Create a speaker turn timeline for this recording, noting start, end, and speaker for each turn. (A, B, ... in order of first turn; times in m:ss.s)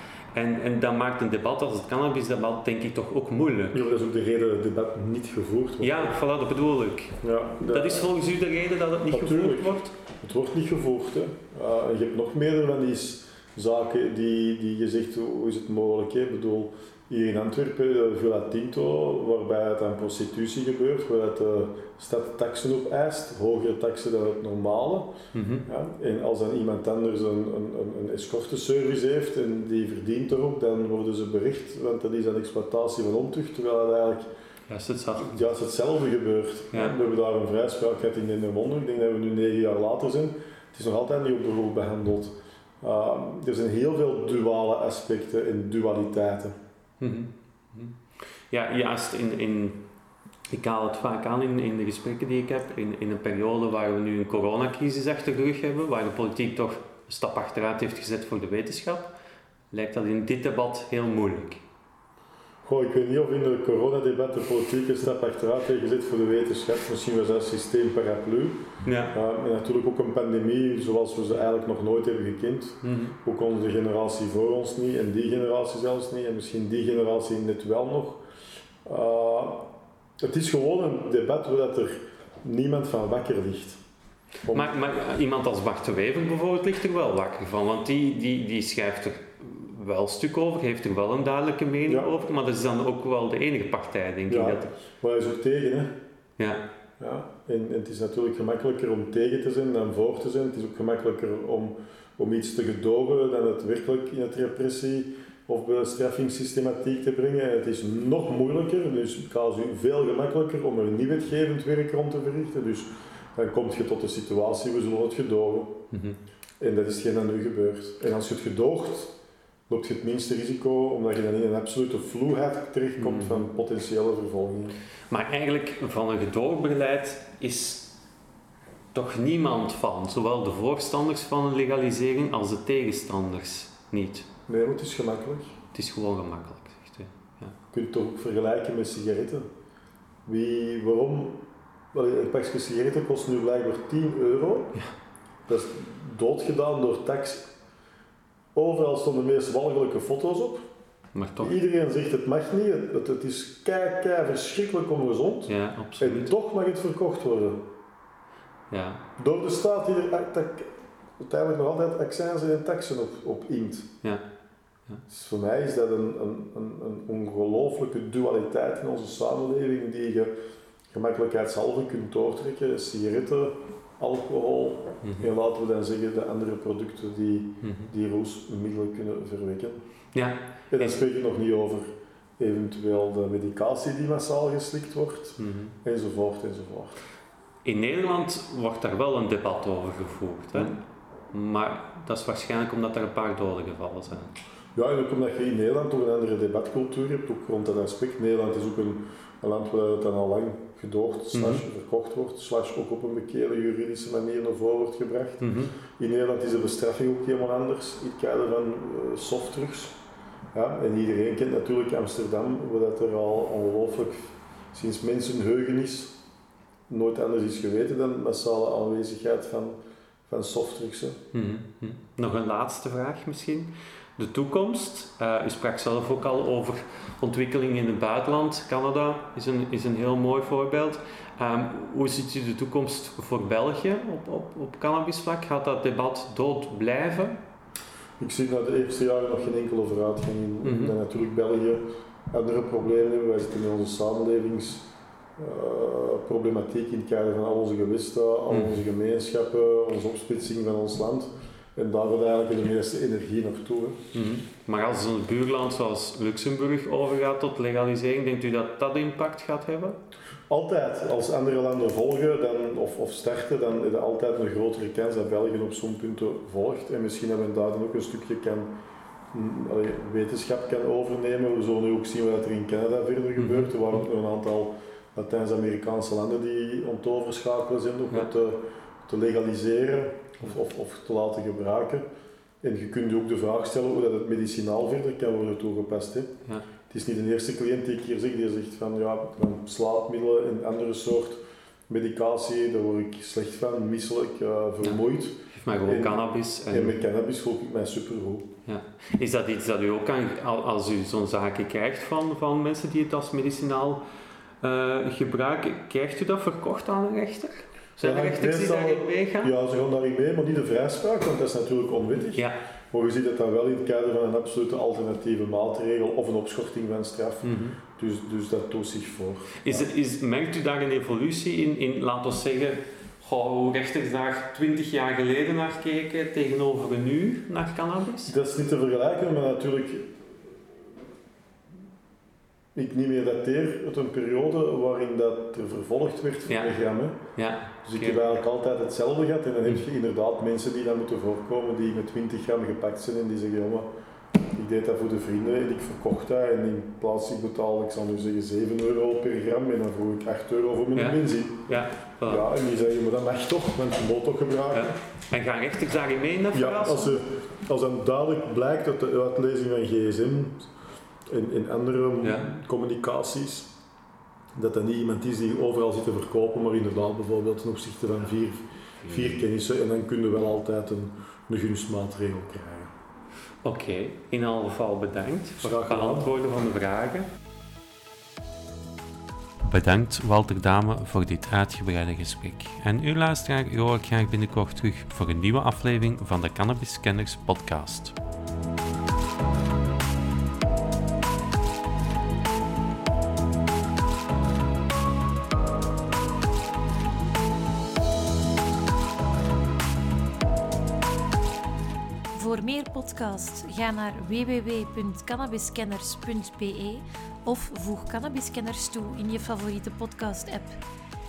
0:00.3-0:03.8 A
0:03.7-0:06.1 B
0:05.8-0:09.9 A
0:07.2-0:08.1 B
0:09.1-0:25.1 B
0:25.3-0:25.7 A
0:25.7-0:34.3 B
0:34.7-0:35.4 A
0:35.2-0:46.5 B
0:47.0-0:48.0 A
0:48.5-0:49.8 A
0:50.5-0:59.1 A
0:59.7-1:01.6 A
1:02.6-1:18.2 B
1:08.8-1:09.2 A
1:12.8-1:13.1 A
1:18.8-1:23.8 B
1:24.5-1:34.7 A
1:31.9-1:32.1 B
1:34.3-1:36.0 B
1:36.4-1:36.6 A
1:37.0-1:55.8 B
1:55.9-1:56.2 A
1:56.6-1:59.1 B
1:59.7-2:04.8 B
2:03.0-2:03.4 A
2:05.1-2:07.9 A
2:08.9-2:14.3 A
2:14.5-2:15.6 B
2:15.7-2:17.6 A
2:17.7-2:19.5 B
2:20.2-2:21.4 B
2:21.9-2:24.8 B
2:25.5-2:27.5 B
2:28.5-2:30.7 B
2:31.1-2:31.5 A
2:31.4-2:37.7 B
2:35.5-2:36.3 A
2:38.7-2:39.0 A
2:39.2-2:43.9 B
2:45.1-2:50.3 B
2:50.9-2:59.8 B
2:55.0-2:55.3 A
2:57.6-2:57.9 A
3:00.1-3:01.0 A
3:00.7-3:07.0 B
3:05.4-3:05.7 A
3:07.6-3:10.8 A
3:11.3-3:14.3 A
3:14.7-3:30.0 B
3:21.3-3:21.6 A
3:25.4-3:25.7 A
3:30.5-3:36.2 B
3:36.9-3:41.2 B
3:41.3-3:57.4 A
3:58.2-4:14.0 B
4:00.6-4:01.0 A
4:14.1-4:20.0 A
4:20.5-4:28.7 B
4:29.3-4:42.0 B
4:33.4-4:33.7 A
4:42.6-4:46.3 B
4:46.9-4:58.5 B
4:55.5-4:57.0 A
4:58.6-5:04.0 A
5:04.6-5:09.5 A
5:08.0-5:19.9 B
5:17.4-5:17.8 A
5:19.6-5:28.3 A
5:28.3-5:30.2 B
5:32.7-5:37.2 B
5:36.5-5:36.7 A
5:37.4-5:38.2 A
5:37.8-5:43.9 B
5:44.5-5:55.0 B
5:51.0-5:52.4 A
5:54.7-5:57.2 A
5:56.5-6:00.7 B
6:01.3-6:03.7 B
6:02.2-6:02.5 A
6:04.5-6:12.9 B
6:09.0-6:09.3 A
6:13.6-6:17.3 A
6:15.6-6:16.3 B
6:19.6-6:28.1 A
6:42.3-6:50.8 C